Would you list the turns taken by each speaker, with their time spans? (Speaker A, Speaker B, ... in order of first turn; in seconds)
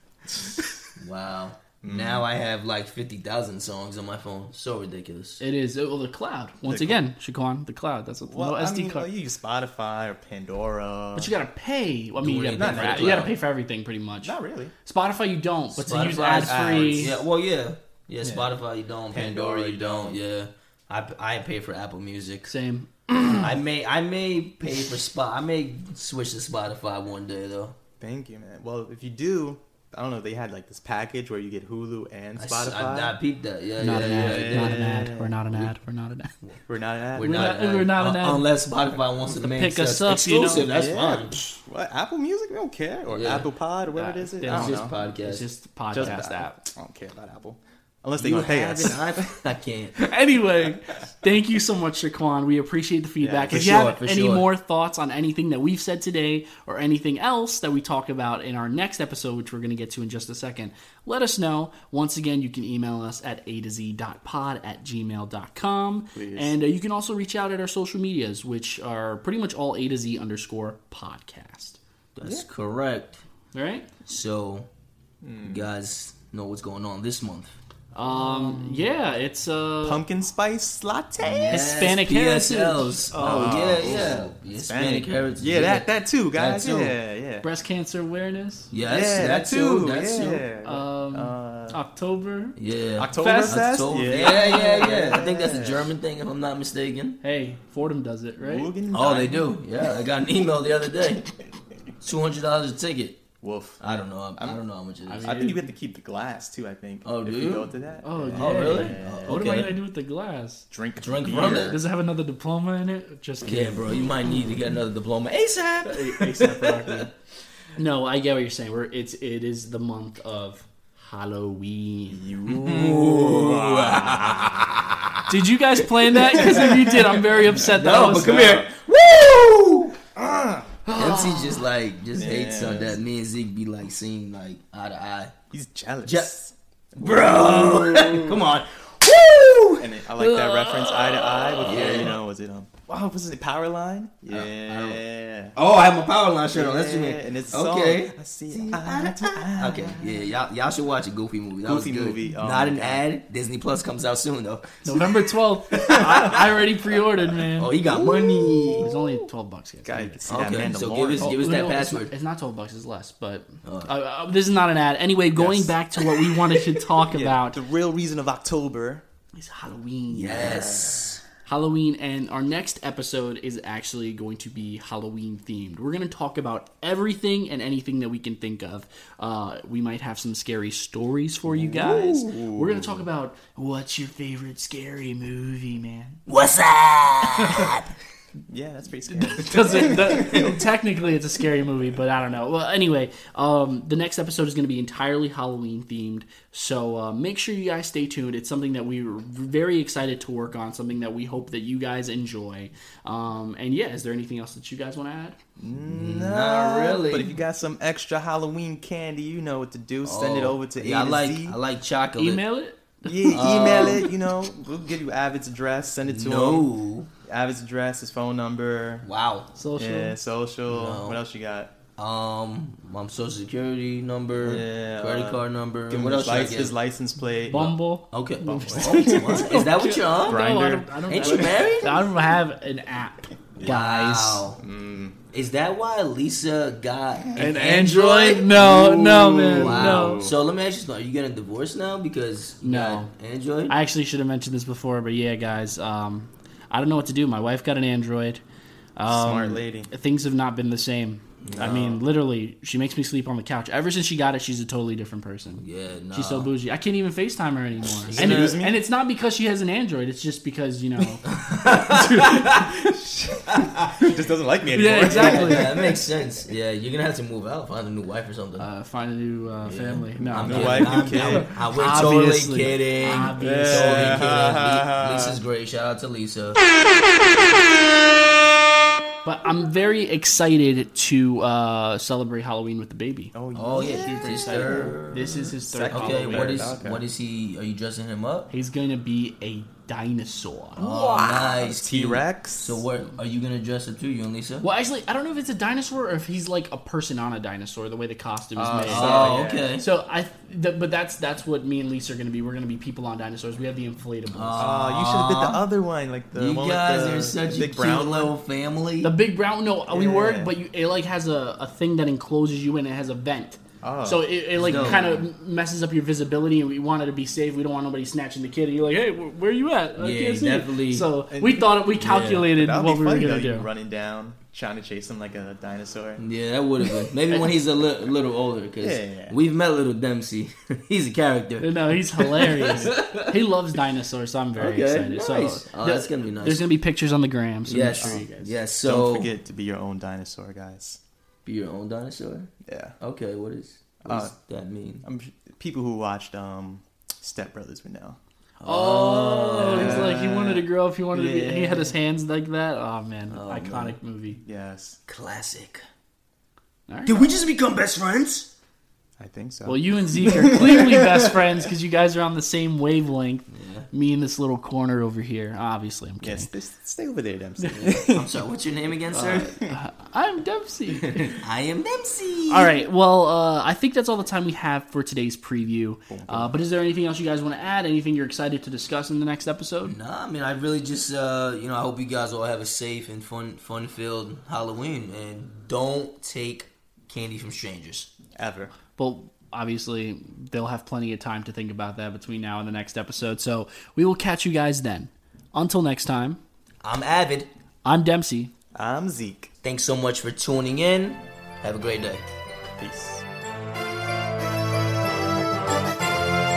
Speaker A: 1.0-5.4, 12.2-13.3, 15.8-22.5, 23.3-27.8, 32.4-35.8, 37.1-41.4, 43.1-43.5, 44.4-46.2, 48.2-50.0, 53.2-54.5, 72.1-73.2, 74.0-74.7, 75.4-77.5, 81.2-87.0, 88.7-90.4, 92.5-97.2, 98.9-101.3, 102.0-103.2, 103.8-105.3, 107.0-107.8, 108.3-109.8, 111.0-111.8, 113.4-117.1, 122.5-125.0, 126.1-130.0, 130.9-135.3, 136.0-136.3, 137.0-142.2, 144.3-145.0, 145.5-155.0, 155.8-156.2, 157.6-158.9, 160.3-162.1, 163.6-163.9, 170.1-171.2, 181.6-182.2, 186.3-187.8, 189.4-190.5, 205.9-207.3, 210.0-212.4, 213.3-214.1, 216.0-217.1, 219.0-219.5, 220.7-221.2, 222.0-226.8, 227.5-230.6, 231.1-232.0, 233.6-234.6, 235.3-238.4, 239.3-243.8, 251.4-251.9, 255.6-256.5, 258.0-258.6, 261.3-262.4, 265.0-268.7, 269.6-276.6, 283.5-288.5, 290.8-294.7, 298.8-299.9, 304.3-305.6, 306.3-309.1, 314.5-315.2, 320.0-321.1, 322.0-322.5, 326.2-333.4, 334.6-336.7, 337.6-339.3, 341.4-345.1, 348.6-350.3, 353.3-354.0, 355.1-355.8, 357.1-358.5, 363.5-363.9, 368.1-369.5, 371.3-372.8, 379.8-388.1, 396.8-397.5, 399.6-402.2
Speaker B: 1.8-2.3, 6.6-7.1, 8.3-11.4, 12.5-13.3, 14.2-14.7, 15.8-17.2, 18.2-18.5, 19.1-20.2, 28.0-33.2, 33.9-35.4, 36.7-37.4, 40.5-44.9, 45.9-49.3, 53.4-53.7, 66.1-66.6, 75.2-75.7, 78.0-78.9, 79.8-81.8, 83.2-87.5, 88.8-91.8, 93.0-95.9, 98.4-99.5, 103.4-103.8, 104.4-104.6, 105.2-109.7, 110.7-111.8, 122.1-124.7, 126.4-126.7, 128.0-128.7, 130.2-130.8, 132.1-133.0, 135.5-138.4, 139.8-145.6, 146.5-150.3, 151.6-153.0, 157.9-158.9, 159.8-161.4, 165.3-165.7, 167.1-169.0, 170.4-170.9, 181.5-183.1, 188.5-190.5, 205.6-211.6, 213.0-216.7, 217.2-219.1, 219.8-221.7, 224.4-227.6, 228.8-229.6, 230.2-232.0, 234.6-235.2, 237.3-240.3, 249.1-249.9, 251.5-252.0, 258.1-258.8, 263.0-265.9, 270.2-271.5, 273.3-275.4, 283.3-285.0, 285.6-287.0, 290.8-292.8, 298.6-299.7, 304.6-308.3, 309.9-310.5, 313.8-315.2, 321.3-326.2, 328.8-329.4, 338.0-338.3, 338.8-341.0, 342.6-343.0, 344.0-344.3, 345.0-348.2, 349.6-351.9, 354.4-355.0, 359.2-361.4, 366.2-368.3, 369.3-369.7, 376.1-376.5, 388.4-388.7, 398.7-399.5, 402.8-403.2
Speaker C: 5.4-9.1, 11.1-17.1, 22.5-23.5, 33.8-36.3, 37.2-38.5, 39.3-40.7, 43.9-46.7, 50.0-71.8, 73.5-73.9, 77.9-80.0, 81.5-84.2, 87.4-88.7, 90.6-92.5, 93.1-93.6, 97.2-98.7, 105.1-105.7, 108.0-110.7, 111.4-114.0, 115.9-117.1, 117.8-122.2, 125.3-128.5, 130.8-131.6, 154.8-157.7, 158.8-160.5, 161.2-167.6, 169.3-170.8, 171.4-186.2, 189.1-205.4, 212.2-214.1, 219.6-220.2, 227.4-234.5, 237.3-240.3, 242.6-243.1, 243.7-248.4, 248.9-261.2, 261.8-262.9, 264.7-265.8, 268.6-274.3, 279.2-286.7, 288.5-290.8, 294.6-304.7, 309.0-323.7, 331.6-338.6, 348.6-354.4, 356.9-357.3, 359.6-366.5, 367.6-368.1, 369.1-371.4, 372.5-380.0, 388.9-396.4, 397.8-398.5